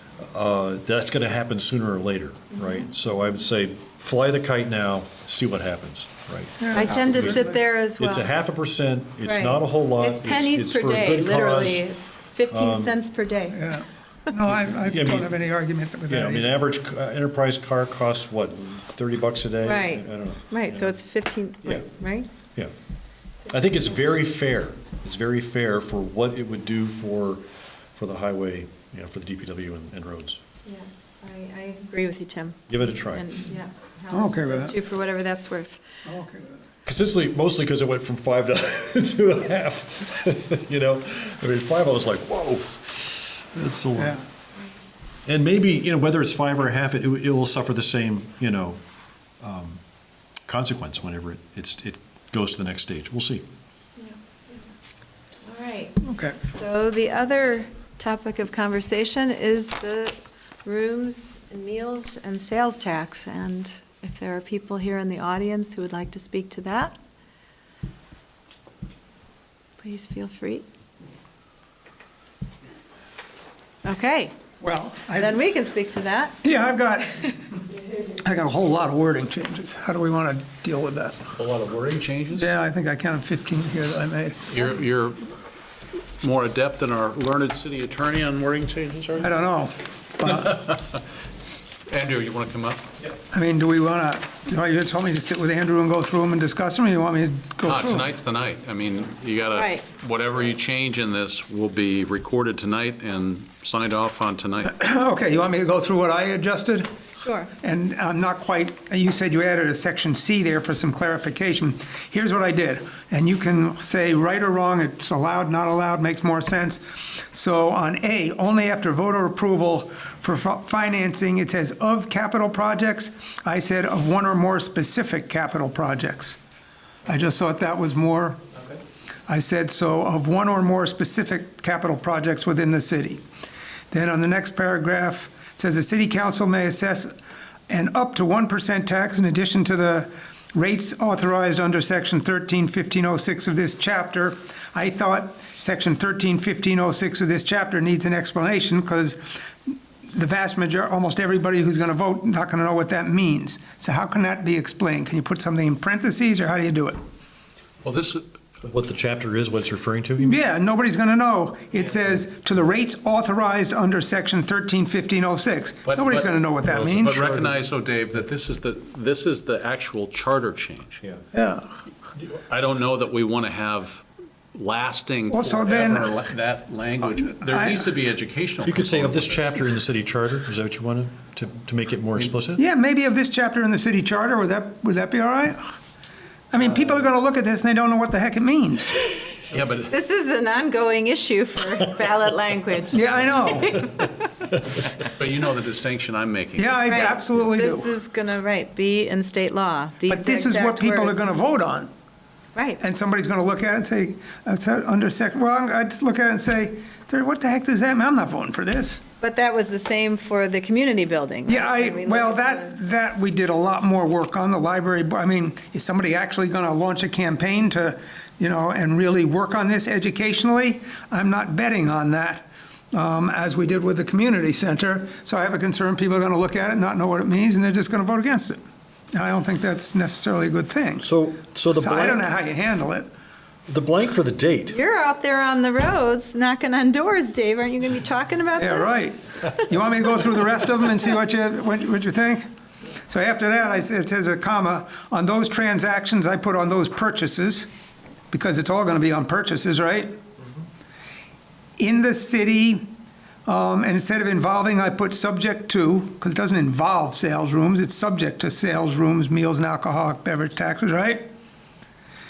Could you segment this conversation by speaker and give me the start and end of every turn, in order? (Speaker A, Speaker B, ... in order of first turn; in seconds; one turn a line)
Speaker A: 0.2-11.8
Speaker B: 2.5-2.9
Speaker C: 6.6-7.5
Speaker B: 6.7-8.3
Speaker B: 9.2-13.7
Speaker A: 12.5-12.9
Speaker C: 13.5-16.5
Speaker A: 14.5-15.3
Speaker A: 16.1-21.0
Speaker B: 19.6-22.3
Speaker A: 23.5-27.4
Speaker A: 27.9-30.4
Speaker B: 30.7-35.9
Speaker A: 32.7-33.3
Speaker C: 34.1-34.8
Speaker C: 36.1-36.6
Speaker A: 36.9-44.2
Speaker C: 44.0-44.2
Speaker A: 45.3-48.8
Speaker A: 49.4-49.8
Speaker A: 50.5-53.5
Speaker B: 54.0-54.6
Speaker B: 55.4-67.0
Speaker C: 56.0-56.4
Speaker B: 69.8-70.7
Speaker B: 73.8-74.3
Speaker C: 74.6-75.4
Speaker B: 75.1-76.4
Speaker C: 76.4-77.3
Speaker C: 78.2-81.3
Speaker D: 81.4-82.5
Speaker C: 82.3-84.6
Speaker D: 84.5-85.3
Speaker D: 86.2-89.3
Speaker C: 89.2-90.7
Speaker D: 90.5-90.8
Speaker D: 91.9-92.9
Speaker C: 93.3-98.1
Speaker D: 97.6-104.7
Speaker B: 99.5-99.8
Speaker C: 104.7-106.9
Speaker B: 107.2-107.5
Speaker C: 107.6-126.4
Speaker C: 127.1-128.4
Speaker C: 129.3-133.2
Speaker C: 133.9-137.1
Speaker C: 137.7-157.0
Speaker D: 157.8-158.2
Speaker A: 158.6-160.4
Speaker C: 160.2-167.2
Speaker D: 165.9-171.1
Speaker A: 166.7-167.5
Speaker C: 171.3-171.7
Speaker D: 172.5-179.5
Speaker C: 175.3-176.1
Speaker C: 177.2-177.9
Speaker A: 178.6-182.6
Speaker C: 182.6-185.7
Speaker C: 186.5-189.1
Speaker D: 189.5-189.9
Speaker B: 189.9-194.3
Speaker C: 192.9-193.8
Speaker D: 195.1-196.8
Speaker C: 196.6-197.9
Speaker B: 196.9-201.4
Speaker C: 200.1-201.9
Speaker C: 202.8-209.0
Speaker B: 209.2-212.7
Speaker C: 211.5-228.6
Speaker C: 229.1-231.1
Speaker A: 231.0-232.2
Speaker C: 231.8-233.1
Speaker A: 233.7-234.8
Speaker B: 234.7-238.9
Speaker C: 238.6-242.4
Speaker C: 243.1-247.7
Speaker C: 248.3-250.1
Speaker C: 251.8-252.9
Speaker C: 253.5-261.3